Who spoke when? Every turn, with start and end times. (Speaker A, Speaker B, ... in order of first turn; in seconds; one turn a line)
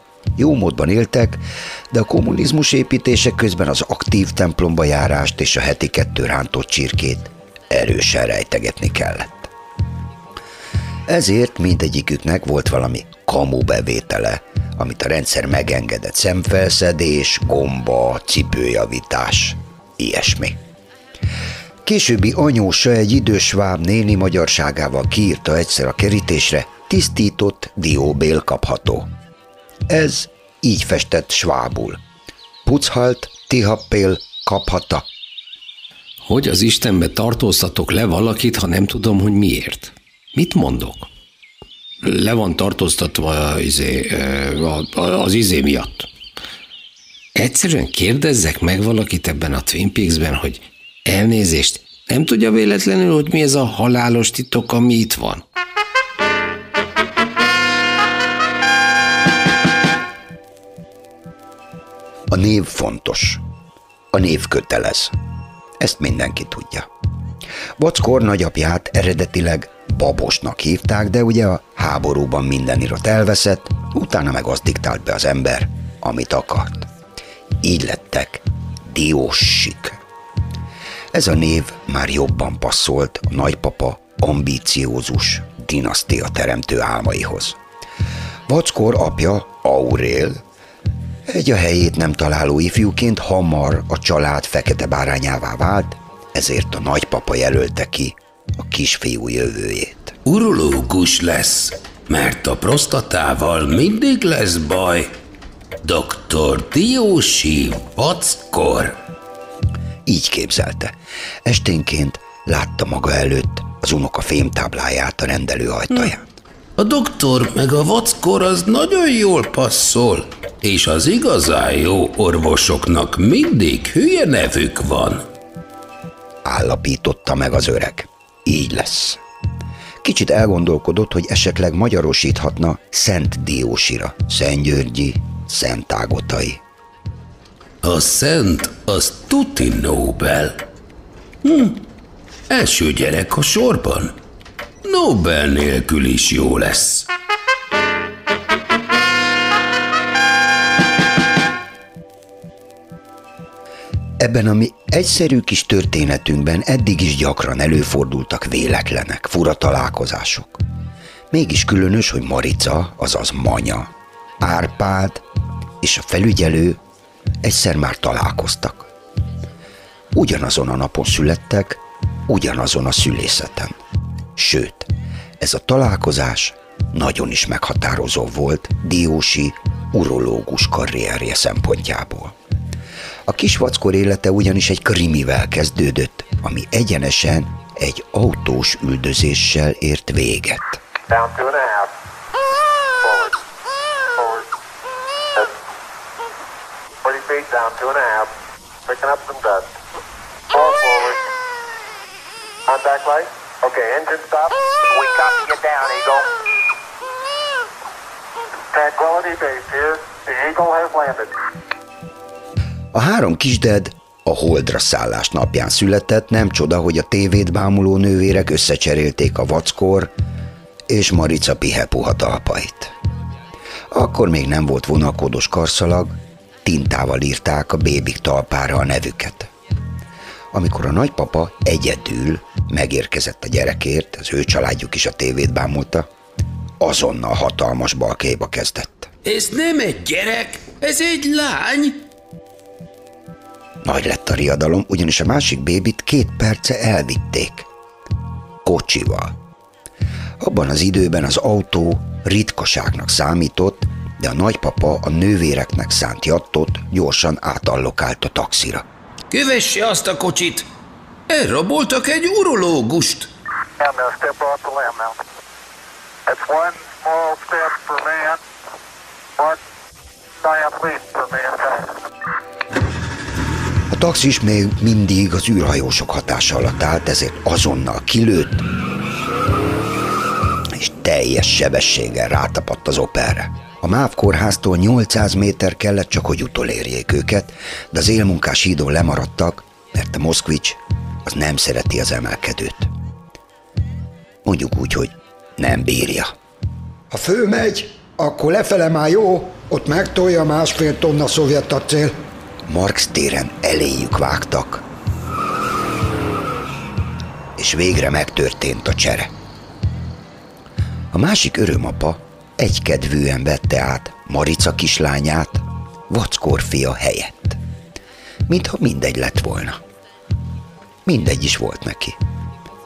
Speaker A: 0.3-9.5
Speaker A: 11.1-20.6
Speaker A: 21.8-29.1
Speaker A: 29.9-32.0
Speaker A: 32.6-35.0
Speaker B: 36.2-41.1
Speaker B: 42.0-46.1
Speaker B: 47.4-55.4
Speaker A: 62.3-63.4
Speaker A: 64.1-65.1
Speaker A: 65.8-66.9
Speaker A: 67.8-76.9
Speaker A: 77.6-80.0
Speaker A: 81.1-87.6
Speaker A: 88.5-90.4
Speaker A: 91.3-100.2
Speaker C: 100.2-105.1
Speaker C: 105.8-109.0
Speaker A: 110.0-116.3
Speaker C: 116.8-125.2
Speaker A: 126.4-129.2
Speaker A: 130.0-136.6
Speaker C: 137.8-140.6
Speaker C: 141.4-141.8
Speaker C: 142.5-144.1
Speaker C: 144.8-147.1
Speaker A: 154.2-160.6
Speaker A: 161.3-165.2
Speaker A: 165.8-166.8
Speaker A: 167.4-168.8
Speaker A: 170.1-173.8
Speaker A: 174.3-182.3
Speaker A: 183.2-190.8
Speaker D: 191.1-191.9
Speaker D: 193.0-193.4
Speaker D: 194.2-194.4
Speaker D: 197.0-198.3
Speaker D: 198.8-199.7
Speaker D: 200.5-201.2
Speaker D: 202.7-206.3
Speaker D: 208.7-211.3
Speaker A: 212.9-220.1
Speaker A: 220.9-222.9
Speaker A: 223.9-229.5
Speaker A: 230.5-236.1
Speaker A: 236.8-239.1
Speaker C: 239.2-242.0
Speaker A: 243.8-247.7
Speaker A: 248.6-249.3
Speaker A: 250.4-258.8
Speaker C: 259.3-260.7
Speaker C: 261.3-263.3
Speaker D: 263.8-265.1
Speaker D: 266.3-268.4
Speaker D: 270.4-271.9
Speaker A: 273.9-278.6
Speaker A: 280.7-292.9
Speaker A: 294.4-296.3
Speaker E: 297.1-302.2
Speaker A: 302.7-304.8
Speaker A: 307.6-309.3
Speaker A: 311.1-317.6
Speaker A: 318.5-319.8
Speaker A: 321.1-322.2